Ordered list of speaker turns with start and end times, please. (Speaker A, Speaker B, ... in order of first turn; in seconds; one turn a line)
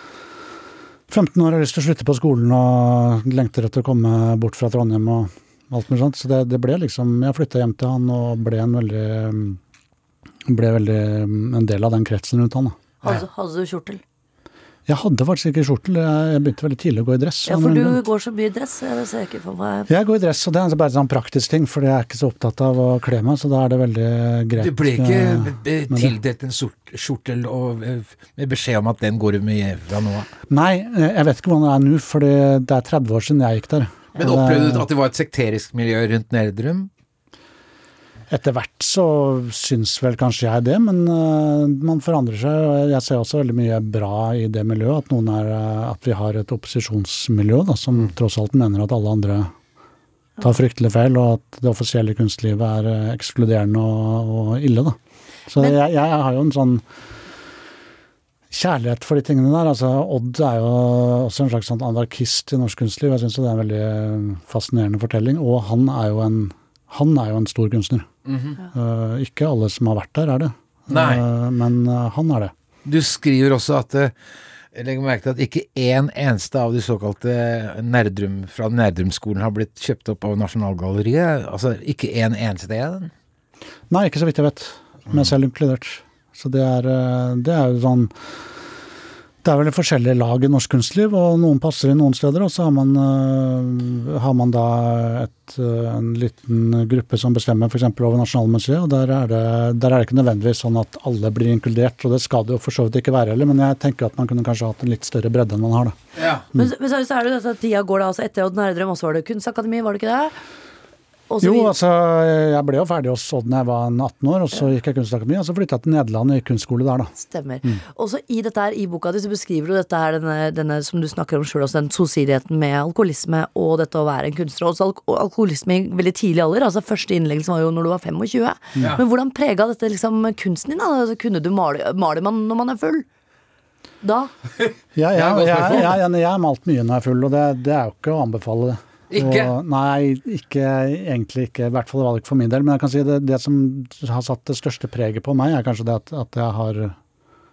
Speaker A: 1.1-9.6
Speaker A: 10.4-12.8
Speaker B: 13.0-14.0
Speaker A: 14.9-18.0
Speaker B: 17.4-19.9
Speaker A: 19.9-26.1
Speaker C: 24.6-30.3
Speaker A: 30.5-34.9
Speaker C: 34.2-36.9
Speaker A: 38.3-49.5
Speaker A: 50.4-55.0
Speaker A: 55.5-56.8
Speaker A: 58.5-68.1
Speaker C: 68.2-68.6
Speaker A: 68.7-72.5
Speaker C: 70.9-71.2
Speaker C: 72.8-74.1
Speaker C: 74.7-83.1
Speaker A: 83.9-88.1
Speaker A: 89.4-106.0
Speaker C: 106.2-106.5
Speaker B: 106.6-110.4
Speaker B: 111.3-111.7
Speaker A: 111.4-117.1
Speaker B: 117.1-133.1
Speaker B: 134.0-134.3
Speaker C: 134.6-136.0
Speaker A: 134.9-146.9
Speaker C: 139.1-139.5